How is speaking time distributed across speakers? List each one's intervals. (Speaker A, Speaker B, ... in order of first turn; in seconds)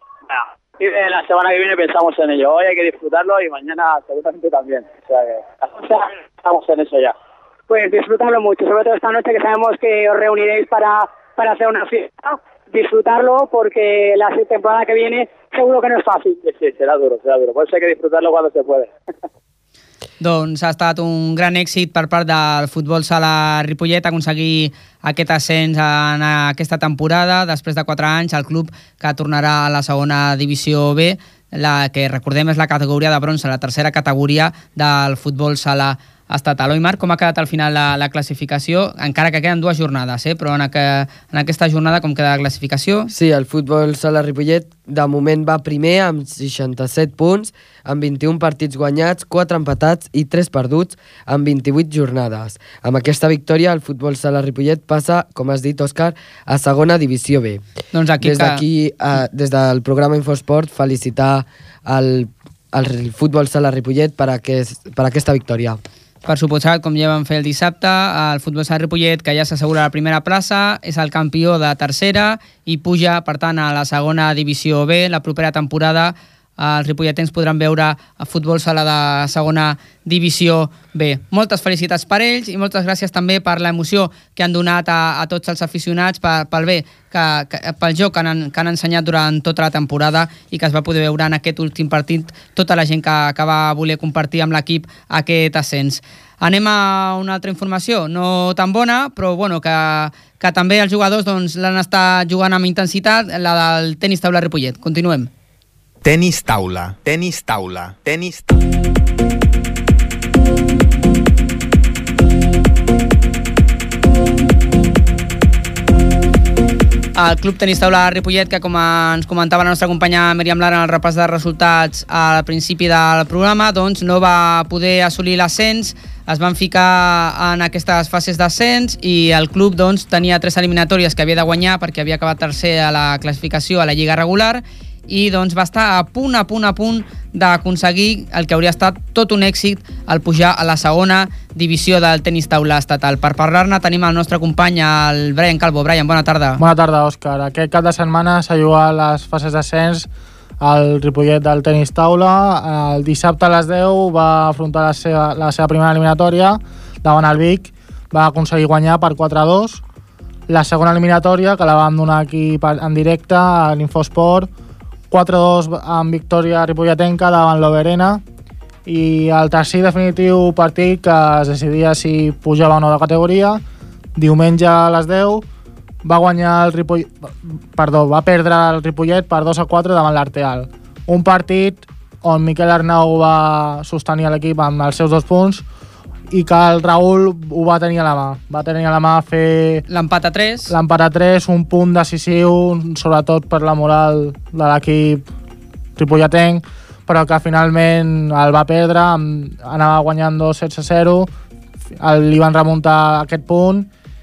Speaker A: 0.3-7.1, 16.4-18.9
Speaker B: 7.7-16.4
Speaker C: 20.2-43.1, 57.9-58.6, 66.2-105.3, 117.2-146.6, 189.9-190.7
Speaker D: 43.1-57.6, 58.2-65.8
Speaker E: 106.0-108.6
Speaker F: 146.6-150.1, 150.6-159.8, 160.5-164.5, 165.1-168.2, 168.9-173.6, 174.2-175.4, 176.0-177.2, 177.7-185.6, 186.3-189.8, 190.7-195.2, 195.9-201.3, 202.0-203.9